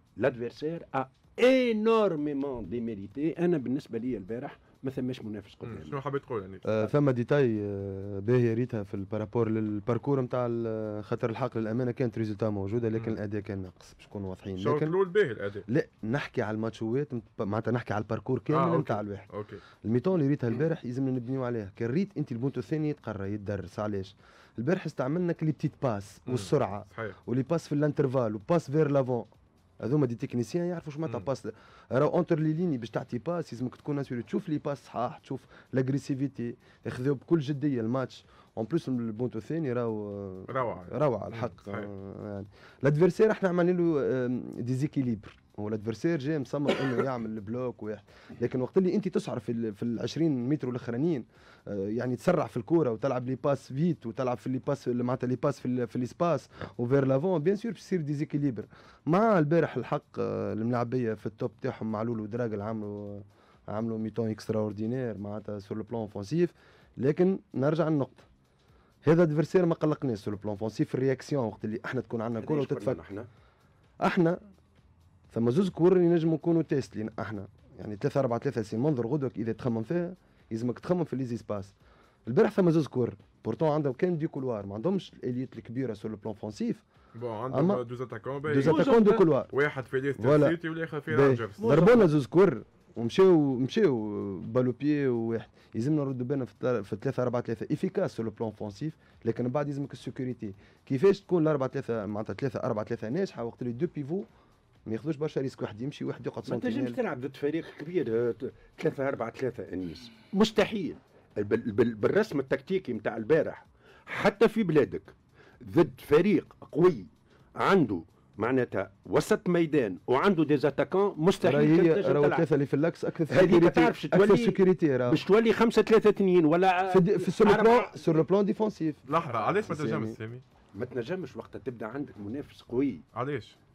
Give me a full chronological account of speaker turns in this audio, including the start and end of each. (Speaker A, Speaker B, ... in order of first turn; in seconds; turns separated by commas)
Speaker A: 0.2-6.0, Speaker B: 5.6-6.7, Speaker C: 6.7-14.9, Speaker B: 14.6-15.7, Speaker C: 15.7-19.3, Speaker B: 18.5-19.6, Speaker C: 19.8-29.3, Speaker B: 26.3-27.2, Speaker C: 29.8-68.3, Speaker B: 40.5-41.9, Speaker C: 69.0-73.0, Speaker A: 72.4-73.3, Speaker C: 74.0-74.4, Speaker C: 75.3-81.7, Speaker C: 82.3-86.8, Speaker B: 87.2-91.8, Speaker C: 87.5-87.8, Speaker C: 88.4-89.5, Speaker A: 88.6-89.3, Speaker C: 90.2-104.3, Speaker A: 91.6-92.1, Speaker C: 104.9-107.0, Speaker A: 106.5-122.5, Speaker C: 121.4-125.2, Speaker A: 123.3-128.3, Speaker C: 126.9-130.2, Speaker B: 129.1-130.4, Speaker A: 130.7-133.0, Speaker B: 133.1-133.6